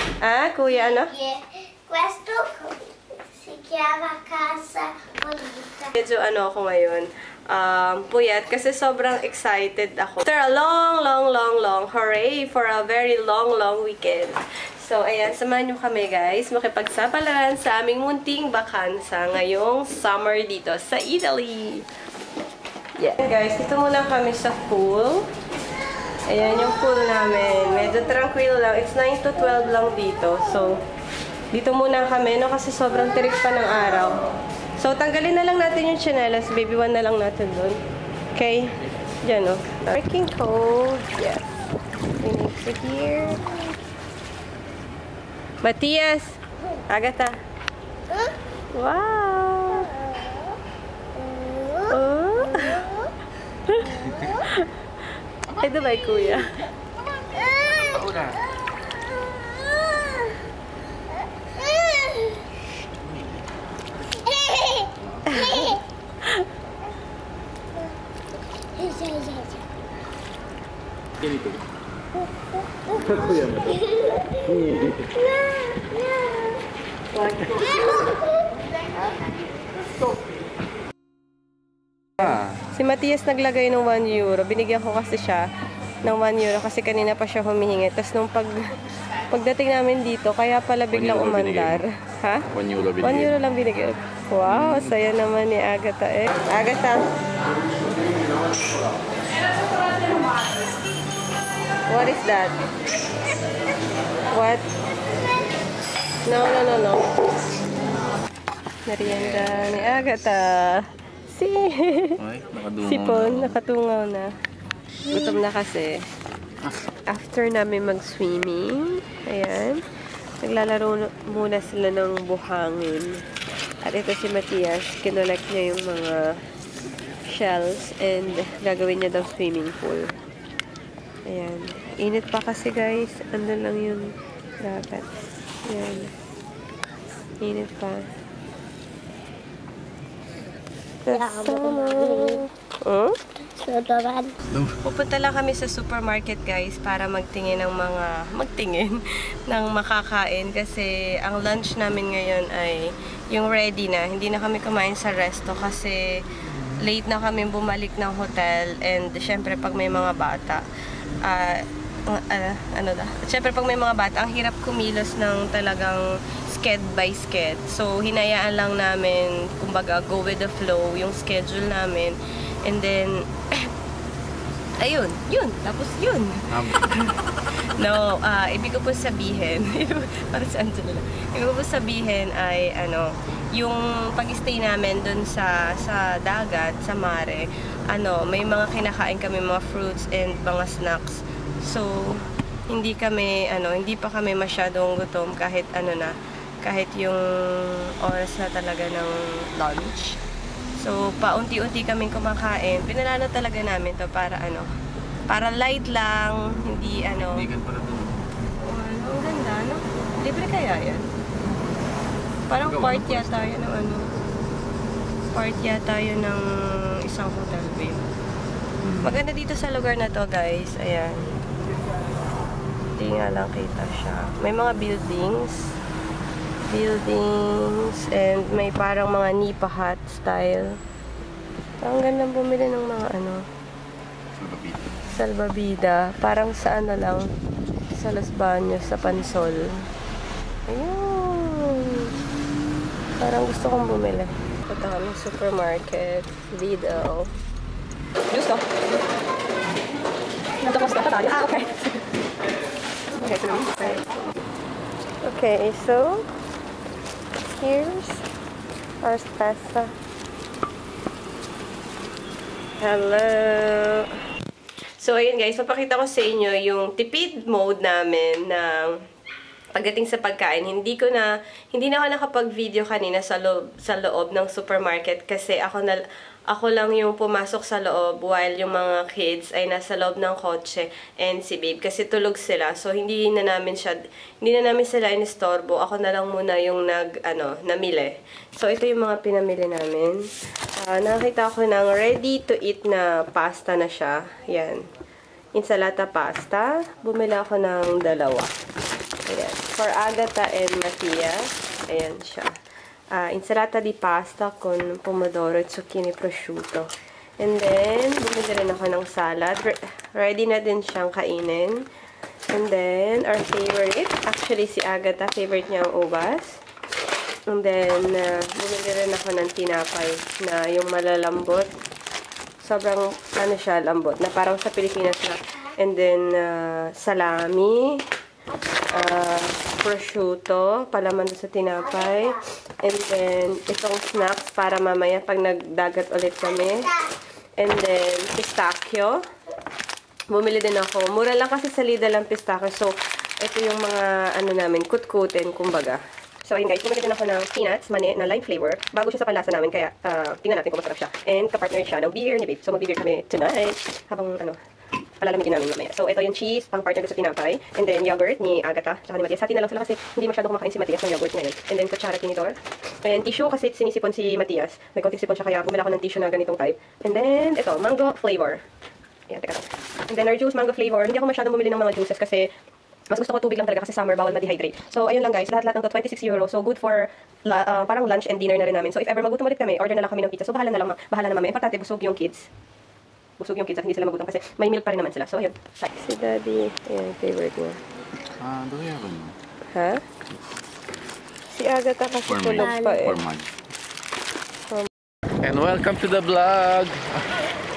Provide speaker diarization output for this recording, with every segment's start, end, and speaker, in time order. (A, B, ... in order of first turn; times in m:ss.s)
0:00.2-0:01.1 A
0:00.9-0:05.9 B
0:05.9-0:21.9 A
0:23.0-0:25.3 A
0:26.3-0:30.8 A
0:31.5-0:37.8 A
0:38.4-0:41.5 A
0:42.2-0:43.5 A
0:45.6-0:47.4 A
0:48.7-0:50.0 A
0:51.4-0:51.8 B
0:51.9-0:52.9 A
0:53.7-0:54.8 A
0:55.5-0:56.6 A
0:57.4-0:58.0 B
0:57.9-0:58.4 C
1:01.6-1:02.4 B
1:04.3-1:05.8 B
1:05.0-1:05.3 C
1:05.3-1:06.5 A
1:08.8-1:09.6 B
1:11.2-1:11.6 C
1:13.0-1:13.8 C
1:13.9-1:14.4 B
1:14.4-1:15.1 C
1:15.2-1:16.5 A
1:17.2-1:17.5 A
1:17.5-1:18.2 B
1:22.2-1:22.6 C
1:22.7-1:25.5 A
1:26.0-1:28.7 A
1:29.3-1:32.5 A
1:30.9-1:31.8 C
1:32.5-1:33.3 C
1:33.0-1:37.1 A
1:34.4-1:34.9 C
1:41.9-1:42.6 A
1:44.3-1:44.7 A
1:46.2-1:47.1 A
1:48.9-1:52.2 A
1:52.2-1:53.6 C
1:52.8-1:54.3 A
1:55.1-1:56.0 A
1:57.1-1:59.8 A
2:00.4-2:03.2 A
2:03.8-2:06.2 A
2:07.3-2:10.2 A
2:11.3-2:15.1 A
2:15.6-2:16.1 A
2:17.4-2:18.1 A
2:21.1-2:23.2 A
2:21.1-2:22.4 B
2:23.6-2:24.4 B
2:24.8-2:36.3 A
2:36.8-2:40.6 A
2:41.2-2:53.7 A
2:54.8-3:20.2 A
2:56.5-2:56.9 C
3:20.8-3:24.7 A
3:25.3-3:27.5 A
3:27.3-3:28.2 C
3:28.6-3:31.1 A
3:32.5-3:34.1 A
3:32.6-3:33.5 C
3:35.3-3:38.0 A
3:39.0-3:41.4 A
3:43.0-3:45.7 A
3:46.7-3:50.8 A
3:51.8-3:53.4 A
3:54.4-3:55.0 C
3:55.1-3:57.3 A
3:57.9-3:59.9 A
4:00.7-4:02.1 A
4:03.2-4:07.3 A
4:08.3-4:08.7 A
4:10.6-4:12.0 A
4:13.2-4:14.2 A
4:15.2-4:16.3 A
4:17.5-4:18.2 A
4:19.0-4:19.9 A
4:22.8-4:24.1 A
4:25.0-4:29.0 A
4:29.8-4:54.8 A
4:55.6-4:58.5 A
4:59.3-5:02.5 A
5:03.1-5:06.9 A
5:07.4-5:11.9 A
5:12.5-5:16.6 A
5:17.5-5:21.7 A
5:22.6-5:28.0 A
5:28.9-5:37.0 A
5:37.6-5:39.2 A
5:40.3-5:54.6 A
5:55.2-6:08.6 A
6:09.3-6:12.5 A
6:13.1-6:22.5 A
6:23.4-6:27.8 A
6:28.4-6:29.4 C
6:29.7-6:30.0 A
6:31.5-6:33.2 A
6:32.3-6:33.5 C
6:32.6-6:33.0 B
6:35.4-6:37.2 C